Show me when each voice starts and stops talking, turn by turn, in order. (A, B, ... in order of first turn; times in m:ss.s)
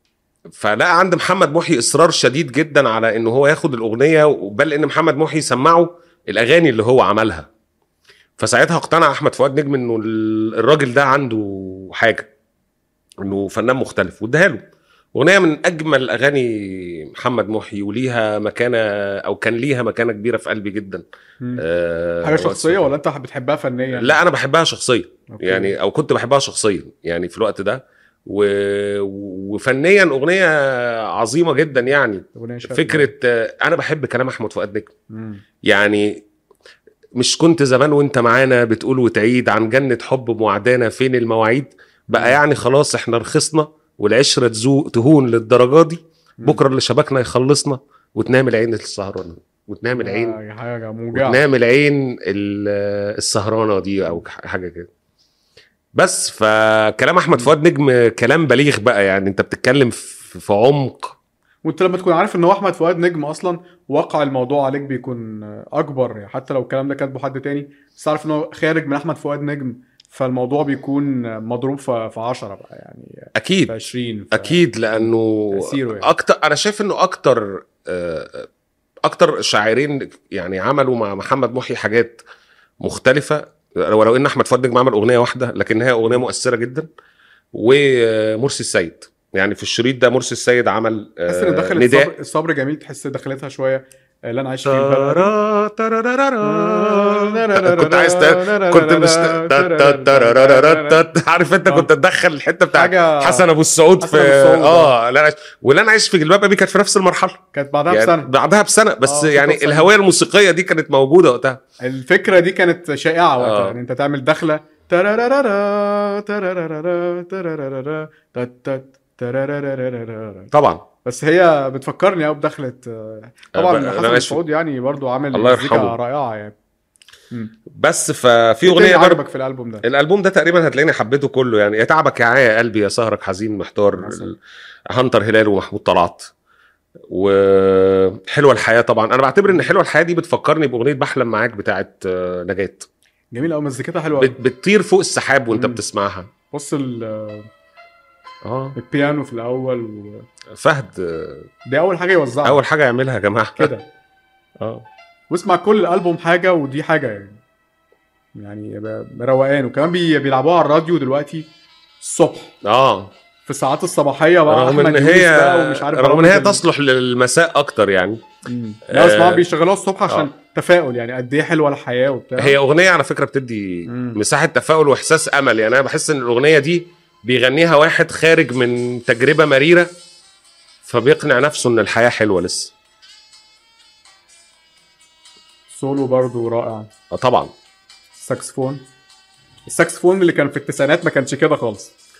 0:00.5-0:07.5 A
0:08.4-0:12.3 A
0:13.2-0:14.6 A
0:15.2-0:21.0 A
0:21.6-0:22.9 A
0:22.2-0:24.2 B
0:23.9-0:34.9 A
0:25.3-0:25.8 B
0:32.4-0:33.1 B
0:35.1-0:35.4 B
0:35.7-0:36.2 A
0:37.2-0:50.4 A
0:42.1-0:42.4 B
0:50.0-0:51.4 B
0:51.1-0:54.9 A
0:56.0-1:01.2 A
1:01.6-1:16.1 B
1:13.4-1:13.7 A
1:14.3-1:18.5 A
1:19.1-1:22.2 A
1:22.8-1:26.9 A
1:27.5-1:32.1 A
1:31.3-1:35.3 B
1:34.6-1:51.6 A
1:36.4-1:41.1 B
1:42.7-1:43.5 B
1:44.0-1:45.0 B
1:47.5-1:48.3 B
1:49.0-1:49.9 B
1:51.8-2:00.5 B
1:53.4-1:53.8 A
2:00.5-2:00.8 A
2:01.0-2:06.6 B
2:03.6-2:04.4 A
2:05.3-2:06.0 A
2:07.7-2:09.2 A
2:08.6-2:09.8 B
2:09.8-2:14.4 A
2:14.0-2:14.3 B
2:14.9-2:16.3 A
2:17.1-2:22.9 A
2:23.3-2:24.4 B
2:24.2-2:26.3 A
2:25.5-2:25.8 B
2:26.5-2:27.5 B
2:28.4-2:28.8 A
2:28.8-2:30.2 B
2:30.6-2:31.5 A
2:31.7-2:32.6 B
2:32.4-2:33.7 A
2:33.6-2:33.9 B
2:35.3-2:37.4 B
2:38.4-2:41.5 B
2:42.0-2:42.5 B
2:42.6-2:43.1 A
2:43.5-2:46.6 B
2:44.5-2:48.2 A
2:48.5-2:52.6 B
2:48.9-2:49.4 A
2:52.4-2:59.9 A
2:53.9-2:54.2 B
3:00.9-3:02.7 A
3:05.7-3:06.9 B
3:07.1-3:07.5 A
3:08.2-3:08.8 B
3:09.7-3:11.9 B